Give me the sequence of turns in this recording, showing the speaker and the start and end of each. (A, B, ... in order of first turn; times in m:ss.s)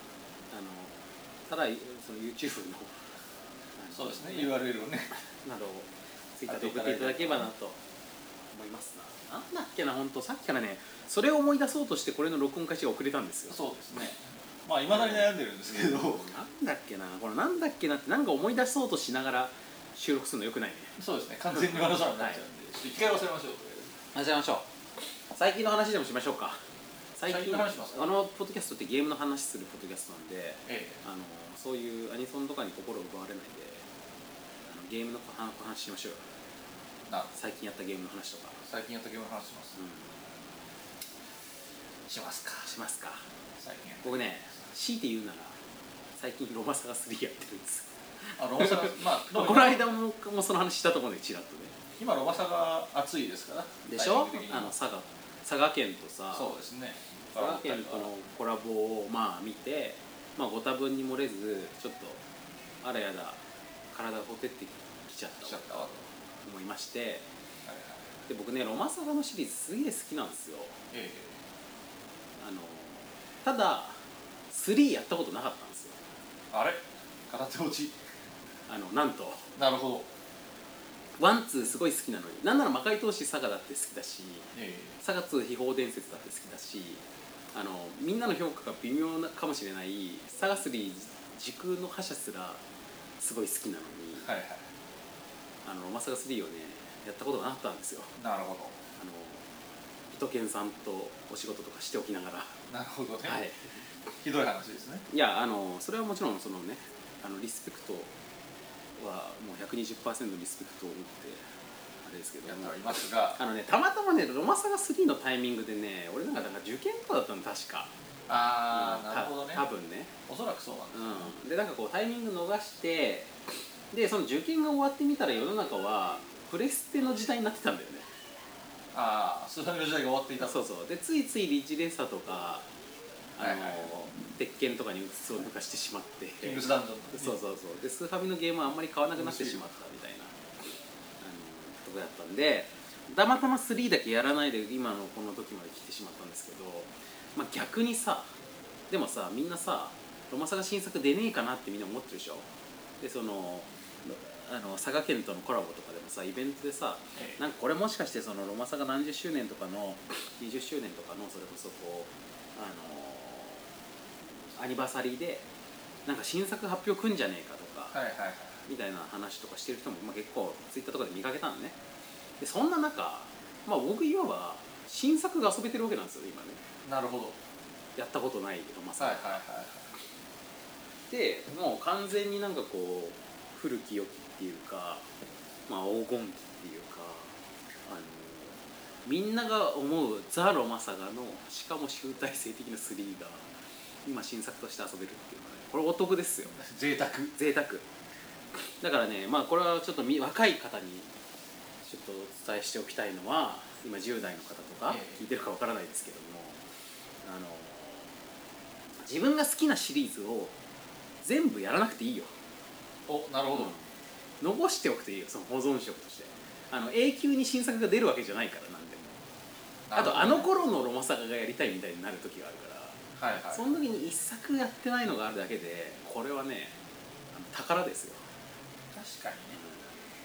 0:00.5-0:01.0 A
0:01.5-0:03.0 A
0:03.8-0:04.6 A
0:03.9-0:05.1 B
0:05.1-0:07.8 A
0:06.5-0:07.5 B
0:08.5-0:13.6 A
0:13.5-0:16.3 B
0:14.9-0:21.0 A
0:21.0-0:23.9 B
0:21.5-0:22.4 A
0:24.1-0:24.7 A
0:25.3-0:26.6 A
0:27.1-0:33.8 A
0:27.2-0:28.1 B
0:30.6-0:31.0 B
0:34.7-0:36.2 A
0:37.1-0:37.3 B
0:37.3-0:38.6 A
0:38.6-0:39.8 B
0:39.8-0:40.1 A
0:42.1-0:42.7 B
0:42.6-0:43.2 A
0:43.6-0:44.2 B
0:44.0-0:45.6 A
0:46.2-0:51.7 A
0:48.4-0:49.9 B
0:52.0-0:54.7 B
0:53.8-0:56.5 A
0:56.3-0:58.1 B
0:57.4-1:02.2 A
1:02.8-1:03.4 A
1:03.9-1:05.9 A
1:05.4-1:06.0 B
1:06.4-1:07.3 A
1:07.6-1:08.0 B
1:08.3-1:10.8 A
1:10.9-1:11.4 B
1:12.4-1:16.0 A
1:16.5-1:18.0 B
1:18.7-1:19.5 A
1:19.6-1:20.1 B
1:21.2-1:32.6 A
1:24.5-1:24.9 B
1:33.2-1:34.3 A
1:34.2-1:34.6 B
1:35.6-1:38.1 A
1:38.2-1:38.8 B
1:39.0-1:39.4 A
1:40.1-1:42.6 A
1:42.7-1:43.4 B
1:43.2-1:43.9 A
1:44.2-1:45.0 B
1:45.1-1:48.1 A
1:49.0-1:51.4 A
1:52.0-1:57.9 A
1:52.4-1:53.4 B
1:58.3-1:59.6 B
1:58.7-2:00.1 A
2:00.3-2:01.3 B
2:00.9-2:03.3 A
2:03.9-2:08.1 A
2:08.9-2:10.6 B
2:10.4-2:12.7 A
2:13.4-2:20.4 A
2:13.4-2:13.9 B
2:16.4-2:17.4 B
2:19.2-2:19.7 B
2:21.2-2:28.3 A
2:28.9-2:32.5 A
2:33.0-2:43.6 A
2:37.1-2:37.4 B
2:44.5-2:45.5 A
2:46.0-2:48.0 A
2:47.9-2:48.6 B
2:48.6-2:51.8 A
2:52.4-2:56.6 A
2:56.8-2:57.4 B
2:58.0-2:59.4 A
2:59.0-2:59.9 B
3:01.1-3:05.0 A
3:05.7-3:07.3 A
3:07.9-3:13.5 A
3:14.0-3:16.6 A
3:16.5-3:17.3 B
3:17.3-3:17.8 A
3:18.8-3:21.1 A
3:21.8-3:26.6 A
3:24.9-3:25.2 B
3:27.2-3:28.1 A
3:29.0-3:30.5 A
3:31.2-3:32.3 A
3:33.1-3:33.8 B
3:33.5-3:33.8 A
3:34.4-3:39.2 A
3:39.9-3:40.5 B
3:39.9-3:46.8 A
3:43.2-3:43.6 B
3:47.3-3:48.2 A
3:48.9-3:49.6 B
3:49.5-3:49.8 A